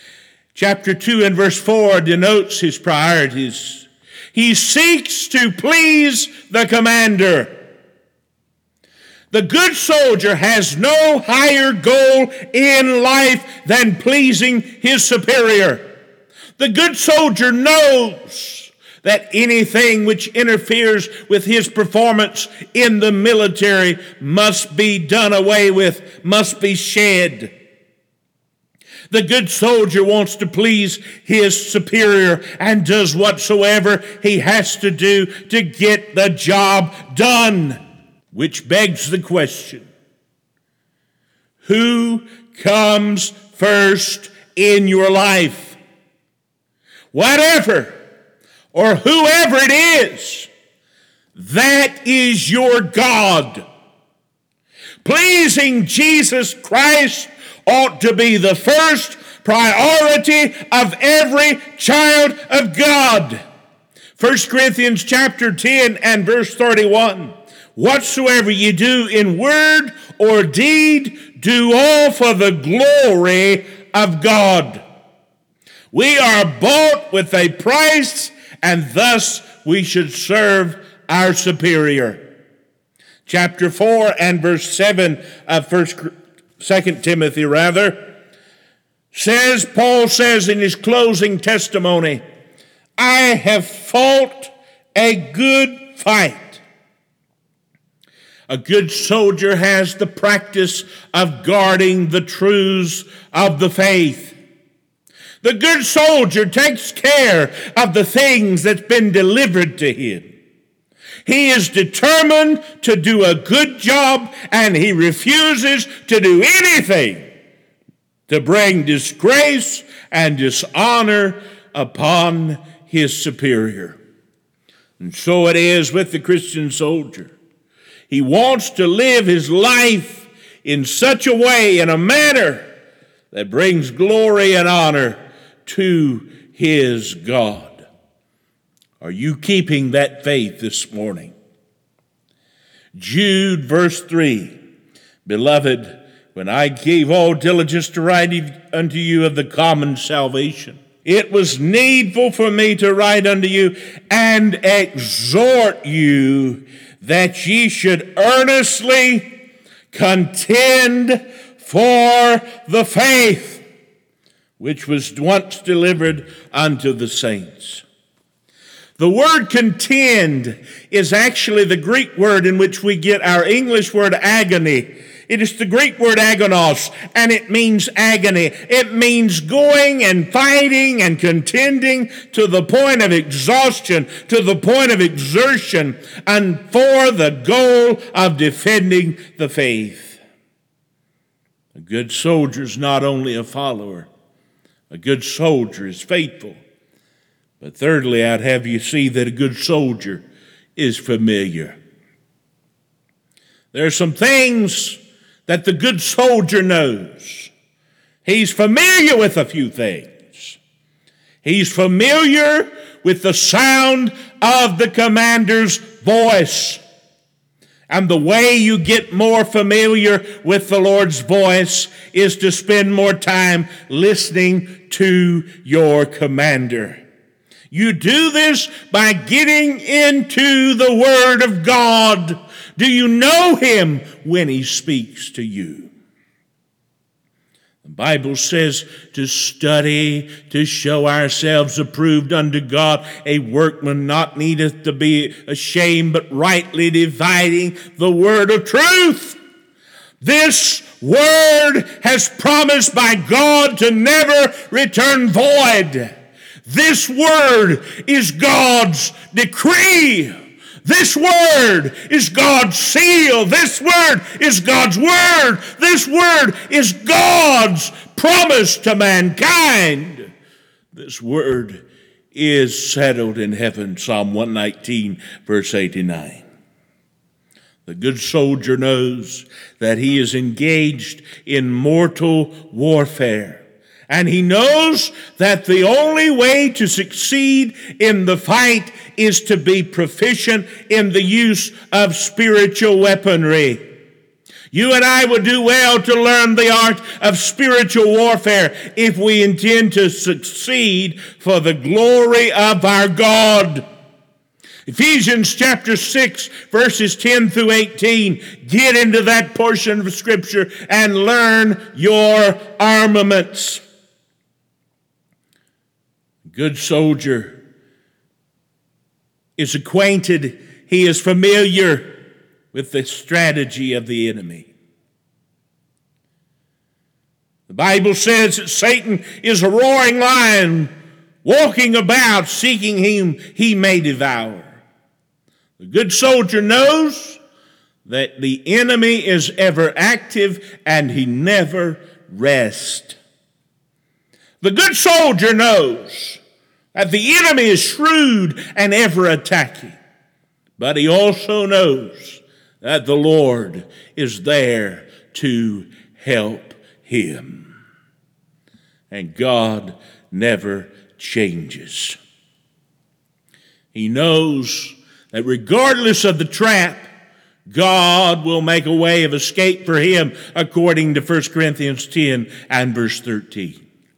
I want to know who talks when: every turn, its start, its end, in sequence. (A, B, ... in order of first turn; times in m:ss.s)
0:00.5-0:07.5 A
0:09.3-0:15.9 A
0:16.6-0:27.5 A
0:29.1-0:37.8 A
0:38.3-0:39.9 A
0:41.6-0:45.8 A
0:47.1-0:48.0 A
0:48.7-0:50.5 A
0:51.3-0:53.6 A
0:55.0-1:03.4 A
1:04.2-1:14.8 A
1:15.9-1:22.2 A
1:23.2-1:28.0 A
1:29.1-1:32.2 A
1:33.0-1:36.6 A
1:38.5-1:44.4 A
1:45.4-1:50.3 A
1:51.2-1:57.2 A
1:58.3-2:04.0 A
2:05.0-2:07.3 A
2:08.1-2:12.7 A
2:13.3-2:17.8 A
2:19.0-2:21.3 A
2:22.9-2:24.6 A
2:25.2-2:39.3 A
2:39.9-2:43.6 A
2:44.6-2:47.8 A
2:49.0-3:10.2 A
3:11.7-3:14.1 A
3:14.9-3:16.6 A
3:17.6-3:20.2 A
3:20.8-3:21.8 A
3:23.7-3:27.5 A
3:28.2-3:30.6 A
3:31.4-3:36.8 A
3:37.9-3:47.0 A
3:47.7-3:55.9 A
3:57.8-4:09.4 A
4:10.2-4:16.1 A
4:16.6-4:30.3 A
4:30.9-4:36.4 A
4:37.8-4:53.8 A
4:54.7-5:03.8 A
5:04.8-5:13.8 A
5:16.5-5:17.6 A
5:19.6-5:22.1 A
5:22.7-5:24.7 A
5:27.7-5:30.9 A
5:31.4-5:34.8 A
5:35.8-5:37.4 A
5:38.0-5:43.2 A
5:44.6-5:46.4 A
5:46.9-5:50.0 A
5:50.8-5:57.7 A
5:59.1-6:02.2 A
6:03.9-6:07.1 A
6:07.7-6:13.8 A